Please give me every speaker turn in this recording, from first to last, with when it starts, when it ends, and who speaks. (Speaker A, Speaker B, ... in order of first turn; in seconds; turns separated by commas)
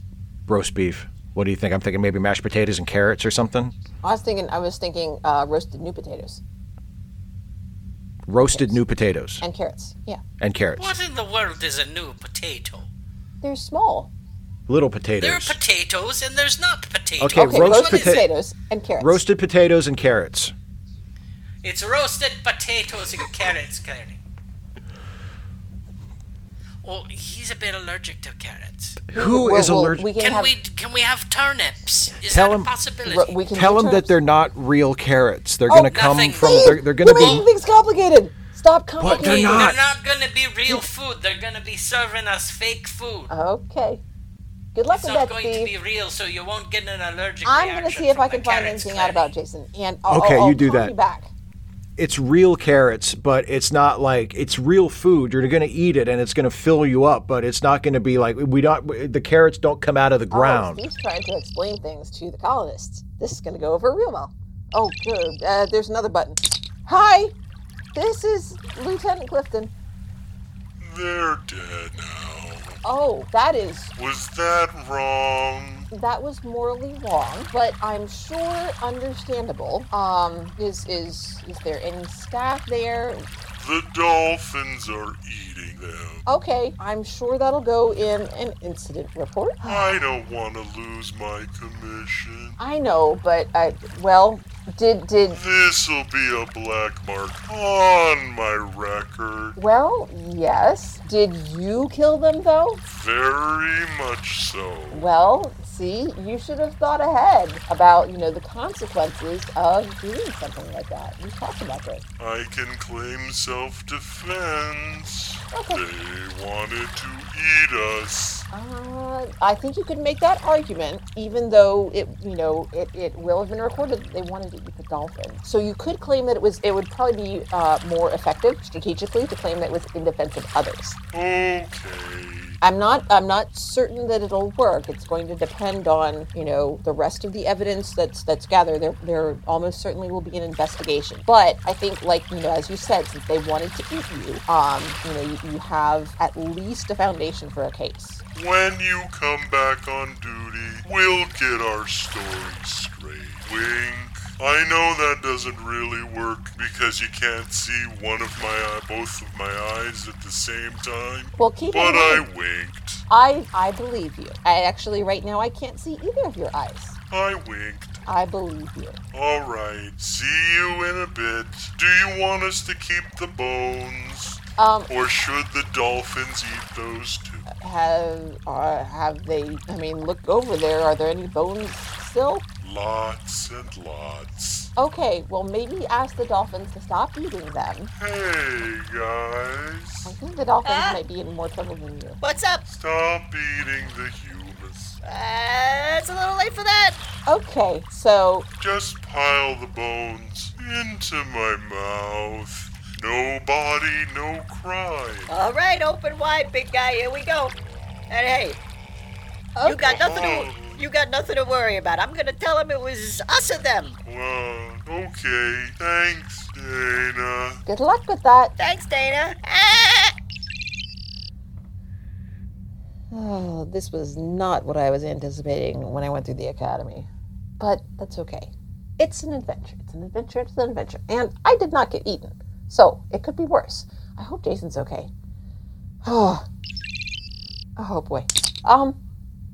Speaker A: 0.5-3.7, Speaker B: 4.0-6.4, Speaker A: 8.3-9.4, Speaker B: 8.5-8.8, Speaker B: 9.4-10.2, Speaker A: 10.4-11.0, Speaker C: 10.8-12.9, Speaker B: 13.4-14.1, Speaker A: 14.7-15.6, Speaker C: 15.2-18.2, Speaker A: 17.2-18.3, Speaker B: 17.3-19.2, Speaker A: 19.0-20.5, Speaker C: 21.6-24.2, Speaker C: 26.8-29.0, Speaker A: 29.1-30.1, Speaker B: 29.1-30.5, Speaker C: 30.2-33.3, Speaker A: 32.3-32.7, Speaker B: 33.0-34.1, Speaker A: 33.5-37.5, Speaker B: 35.7-39.7, Speaker C: 35.9-36.5, Speaker A: 39.0-39.8, Speaker C: 39.2-43.3, Speaker B: 43.3-44.0, Speaker B: 44.7-45.7, Speaker C: 44.9-49.3, Speaker B: 47.4-51.3, Speaker A: 50.1-50.9, Speaker A: 52.0-60.8, Speaker B: 60.3-67.3, Speaker B: 67.9-69.7, Speaker D: 70.8-72.8, Speaker B: 72.8-73.9, Speaker D: 74.0-75.9, Speaker B: 75.9-83.2, Speaker D: 83.5-86.2, Speaker B: 86.3-90.0, Speaker D: 89.6-92.6, Speaker B: 92.6-95.4, Speaker D: 95.3-99.6, Speaker B: 99.5-102.8, Speaker D: 102.9-105.1, Speaker B: 104.9-112.0, Speaker D: 112.2-118.4, Speaker B: 115.5-115.8, Speaker B: 118.5-131.0, Speaker D: 131.1-132.6, Speaker B: 132.6-148.2, Speaker D: 148.3-163.0, Speaker B: 161.4-162.2, Speaker B: 163.1-167.0, Speaker D: 167.1-168.0, Speaker B: 168.1-169.0, Speaker D: 169.1-177.5, Speaker B: 174.6-174.9, Speaker B: 177.5-182.4, Speaker D: 182.6-184.7, Speaker B: 184.8-187.9, Speaker D: 188.0-190.1, Speaker B: 190.0-192.2, Speaker E: 190.7-190.9, Speaker E: 192.2-192.6, Speaker D: 192.7-195.0, Speaker E: 195.0-197.0, Speaker B: 197.2-198.5, Speaker D: 198.6-205.3, Speaker E: 205.3-207.5, Speaker E: 208.1-208.6, Speaker B: 209.6-209.9, Speaker E: 209.6-213.9, Speaker D: 209.7-210.8, Speaker D: 214.0-217.6, Speaker B: 217.7-218.5, Speaker E: 218.6-220.1, Speaker B: 223.1-227.1, Speaker B: 227.6-235.1, Speaker B: 236.0-236.4, Speaker B: 237.8-239.0